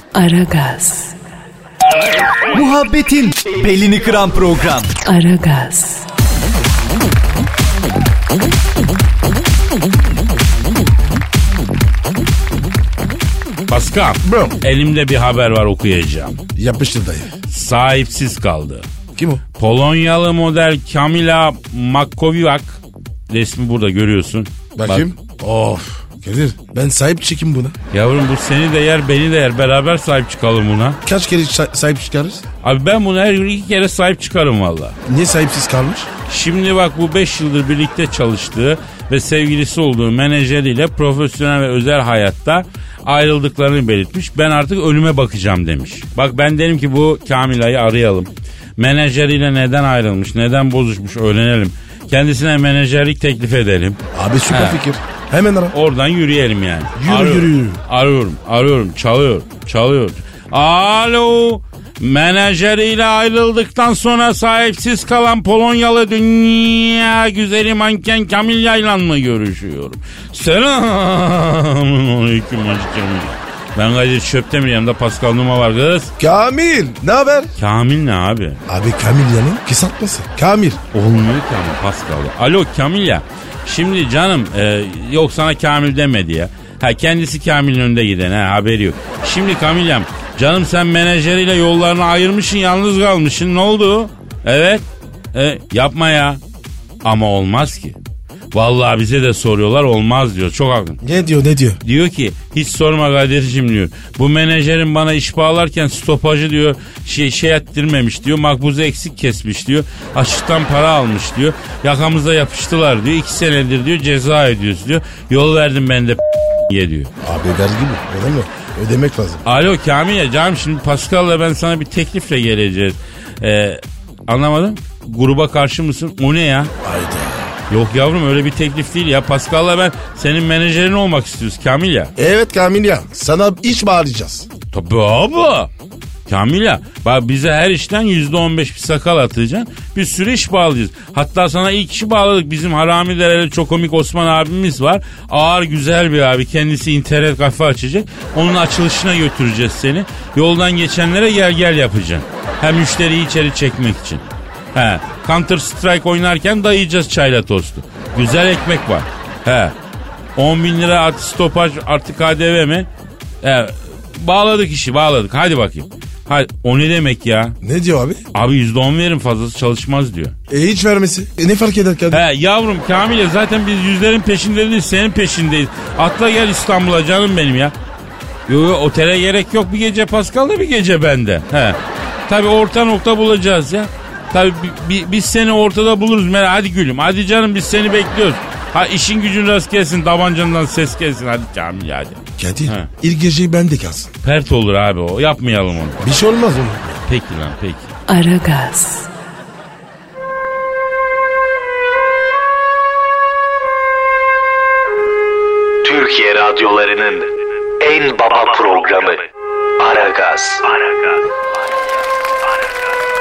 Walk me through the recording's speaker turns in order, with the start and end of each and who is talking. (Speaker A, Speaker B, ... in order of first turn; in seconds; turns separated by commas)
Speaker A: 0.1-1.1, Speaker B: 2.5-4.9, Speaker A: 5.0-6.0, Speaker C: 13.7-16.4, Speaker D: 14.2-14.6, Speaker D: 16.6-17.3, Speaker C: 17.5-18.9, Speaker D: 19.1-19.4, Speaker C: 19.6-25.1, Speaker D: 24.7-27.8, Speaker C: 27.9-31.0, Speaker D: 31.0-32.4, Speaker C: 32.6-35.0, Speaker D: 35.0-36.1, Speaker C: 36.3-54.8, Speaker D: 54.1-55.7, Speaker C: 55.7-76.1, Speaker D: 57.0-57.8, Speaker D: 76.2-77.5, Speaker C: 77.6-78.6, Speaker D: 78.7-80.8, Speaker C: 80.9-96.4, Speaker C: 97.0-98.0, Speaker C: 98.5-101.0, Speaker D: 101.0-101.8, Speaker C: 101.8-117.1, Speaker D: 117.2-119.4, Speaker C: 119.4-126.7, Speaker D: 126.8-127.5, Speaker C: 127.7-132.1, Speaker D: 132.2-134.5, Speaker C: 134.7-135.7, Speaker C: 136.3-159.7, Speaker C: 160.3-162.9, Speaker C: 163.4-167.6, Speaker D: 167.6-168.2, Speaker C: 168.3-170.3, Speaker D: 170.5-172.2, Speaker C: 172.1-177.7, Speaker C: 178.5-192.9, Speaker D: 192.4-194.1, Speaker C: 194.2-196.1, Speaker D: 196.0-197.0, Speaker C: 197.1-197.9, Speaker A: 198.1-199.1, Speaker E: 205.8-207.3, Speaker E: 207.8-209.2, Speaker E: 209.8-210.6